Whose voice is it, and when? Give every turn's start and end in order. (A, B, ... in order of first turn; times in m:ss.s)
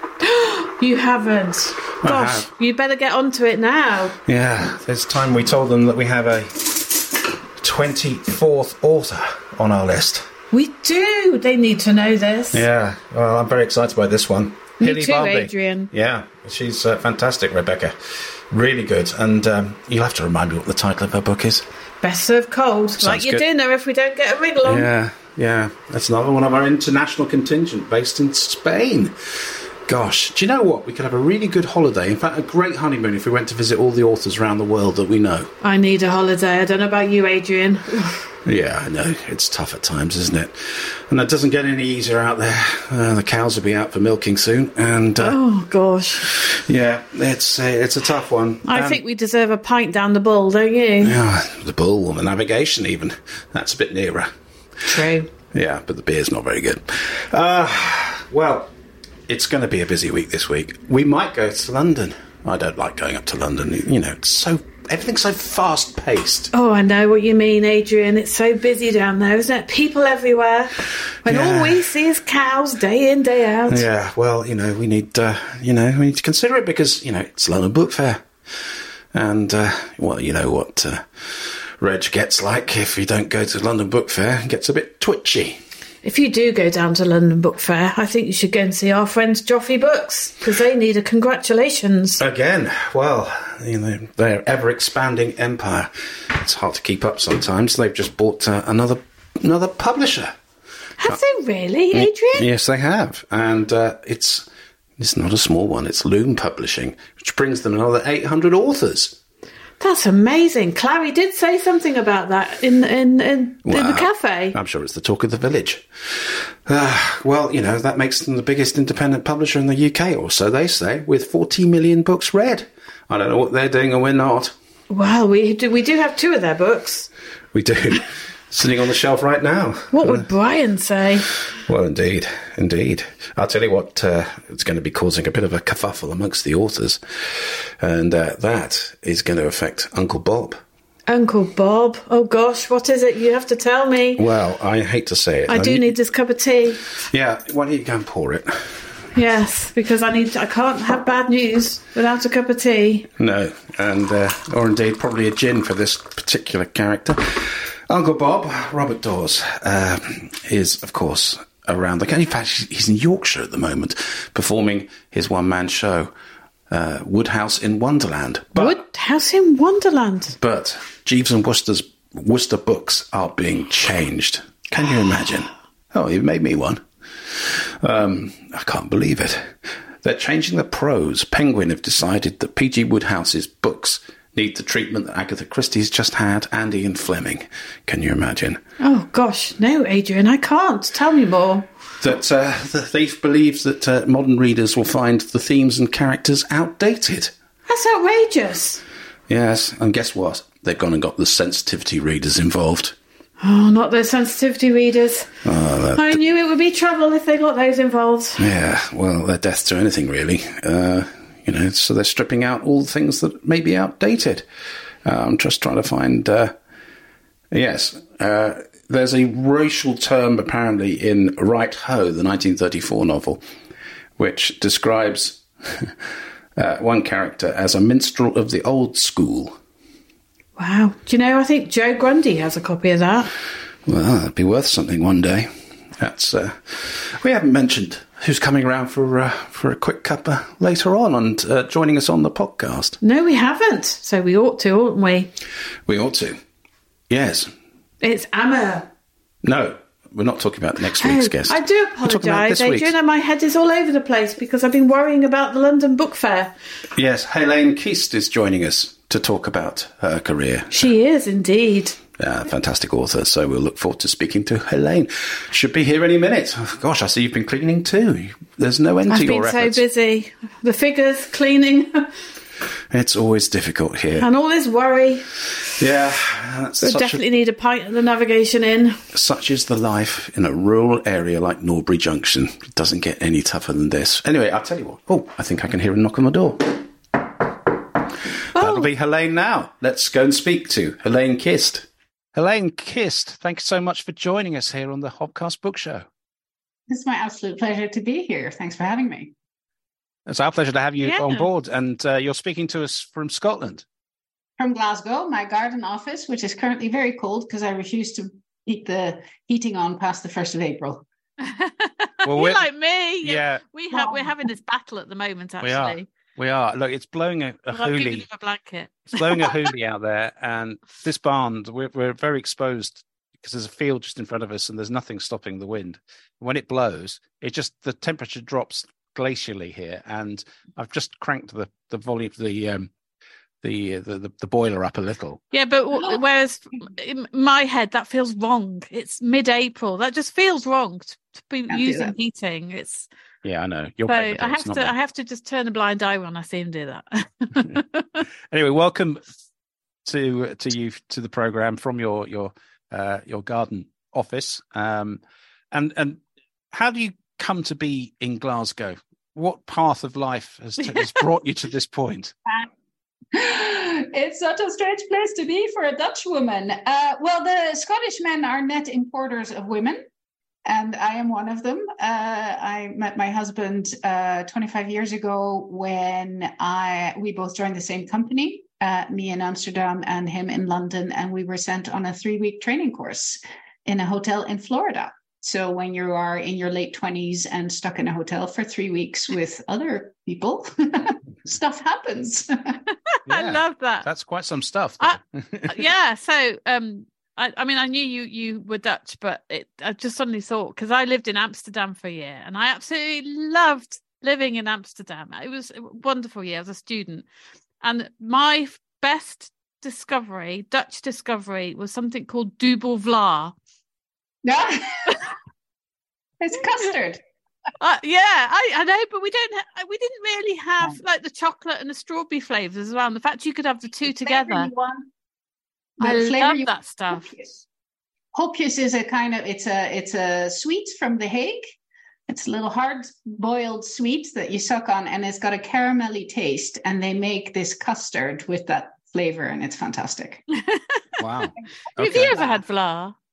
0:00.2-0:04.2 A
0:02.0-0:02.5 B
0:04.2-0:10.3 B
0:10.5-0:12.6 A
0:12.5-0:21.6 B
0:14.8-0:15.9 A
0:22.0-0:24.9 A
0:23.0-0:23.4 B
0:24.6-0:35.5 B
0:35.6-0:38.3 A
0:38.4-0:45.4 B
0:45.2-0:46.4 A
0:46.2-0:49.0 B
0:48.7-0:51.2 A
0:51.0-0:54.3 B
0:54.8-0:55.3 A
0:55.5-0:58.7 B
0:59.3-1:06.5 B
1:06.5-1:13.8 A
1:11.2-1:11.9 B
1:13.7-1:25.6 B
1:26.0-1:32.2 A
1:32.2-1:40.3 B
1:41.0-1:42.5 A
1:41.9-1:44.5 B
1:45.0-1:49.2 B
1:49.8-1:54.6 A
1:53.6-2:04.5 B
2:04.9-2:07.1 A
2:07.5-2:10.3 B
2:09.9-2:11.4 A
2:11.5-2:20.6 B
2:21.1-2:24.2 A
2:24.2-2:25.9 B
2:25.5-2:26.9 A
2:27.0-2:28.9 B
2:29.1-2:33.1 A
2:33.2-2:46.1 B
2:46.7-2:48.8 B
2:48.5-2:50.3 A
2:50.4-3:08.6 B
3:08.8-3:11.7 A
3:12.0-3:17.3 B
3:17.7-3:18.8 A
3:19.3-3:23.0 B
3:23.4-3:25.3 A
3:25.4-3:26.2 B
3:26.0-3:28.4 A
3:28.4-3:34.4 B
3:35.0-3:36.5 B
3:37.5-3:43.4 B
3:44.2-3:46.0 B
3:46.6-3:49.6 B
3:50.6-3:53.3 A
3:53.9-4:03.0 B
4:03.0-4:05.3 A
4:05.9-4:06.4 B
4:07.1-4:07.5 B
4:08.0-4:08.9 A
4:09.4-4:12.9 B
4:11.0-4:16.5 A
4:17.0-4:20.9 B
4:20.7-4:22.0 A
4:22.2-4:29.8 B
4:29.1-4:32.1 A
4:32.9-4:34.3 B
4:34.2-4:35.3 A
4:35.8-4:37.2 B
4:36.8-4:39.0 A
4:39.1-4:46.9 B
4:48.5-4:56.1 B
4:48.5-4:48.9 A
4:56.9-4:59.3 C
5:00.3-5:03.8 B
5:01.0-5:01.4 A
5:04.6-5:11.0 C
5:11.4-5:16.1 A
5:12.2-5:12.7 B
5:13.2-5:13.6 B
5:13.9-5:14.3 C
5:15.6-5:18.2 B
5:17.7-5:19.7 A
5:19.1-5:32.9 B
5:33.6-5:35.4 B
5:35.5-5:43.1 A
5:41.7-5:42.1 C
5:43.4-5:44.9 B
5:44.1-5:48.2 A
5:48.5-5:49.2 B
5:50.0-5:56.2 B
5:56.7-6:02.4 B
6:03.3-6:10.0 C
6:10.6-6:32.8 C
6:33.2-6:34.1 A
6:33.3-6:35.9 B
6:35.0-6:47.2 A
6:47.8-6:53.5 A
6:54.4-6:55.3 C
6:56.4-6:57.2 C
6:57.8-7:04.7 A
7:04.1-7:05.1 C
7:06.0-7:07.6 C
7:06.0-7:07.3 A
7:08.4-7:11.7 C
7:12.3-7:20.4 C
7:20.6-7:21.0 A
7:21.2-7:22.5 B
7:22.0-7:23.2 A
7:22.2-7:22.5 C